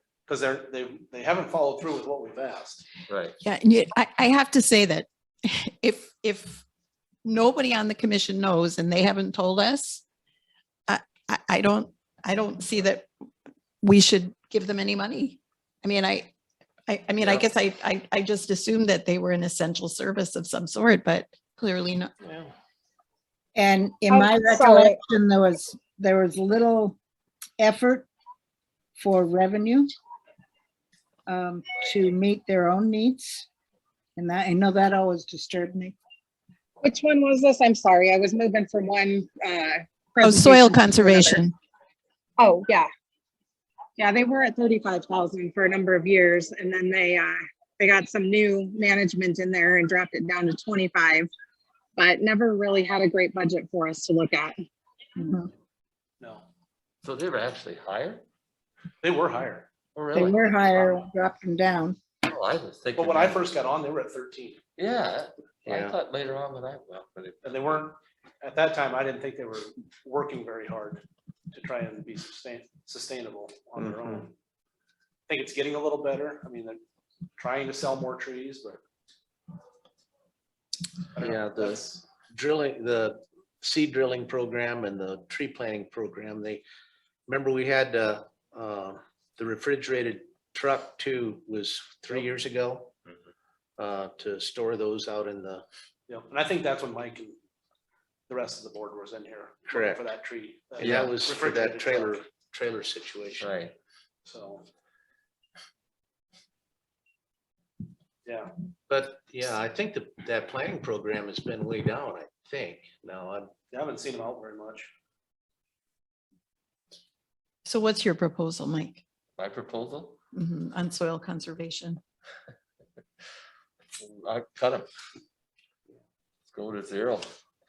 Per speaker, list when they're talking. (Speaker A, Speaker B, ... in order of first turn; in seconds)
Speaker A: 0.3-2.9, 56.2-56.5, 59.0-59.7, 63.0-64.6, 67.4-74.3, 75.3-76.8, 77.4-78.8, 81.2-82.0, 96.1-97.4, 98.3-102.3, 104.3-104.7, 108.3-108.5, 113.7-114.9
Speaker B: 3.1-3.4, 17.2-17.4, 57.0-58.2, 60.0-60.5, 62.2-63.5, 64.8-67.7, 103.4-103.7, 119.4-120.2, 124.0-124.9, 126.5-127.2
Speaker C: 3.4-6.6, 7.2-10.0, 10.9-13.1, 13.8-16.3, 16.9-22.1, 40.2-41.5, 117.7-119.0, 120.3-122.0
Speaker D: 23.6-27.0, 27.6-28.1, 29.0-29.9, 31.3-33.5, 34.2-36.0, 55.2-55.5, 60.1-62.0
Speaker E: 24.1-24.9, 36.8-41.4, 42.4-42.9, 44.0-51.3, 52.0-54.5
Speaker F: 65.7-66.0, 81.2-86.6, 87.3-92.9, 93.8-95.7, 99.7-100.0, 100.8-103.5, 108.9-113.6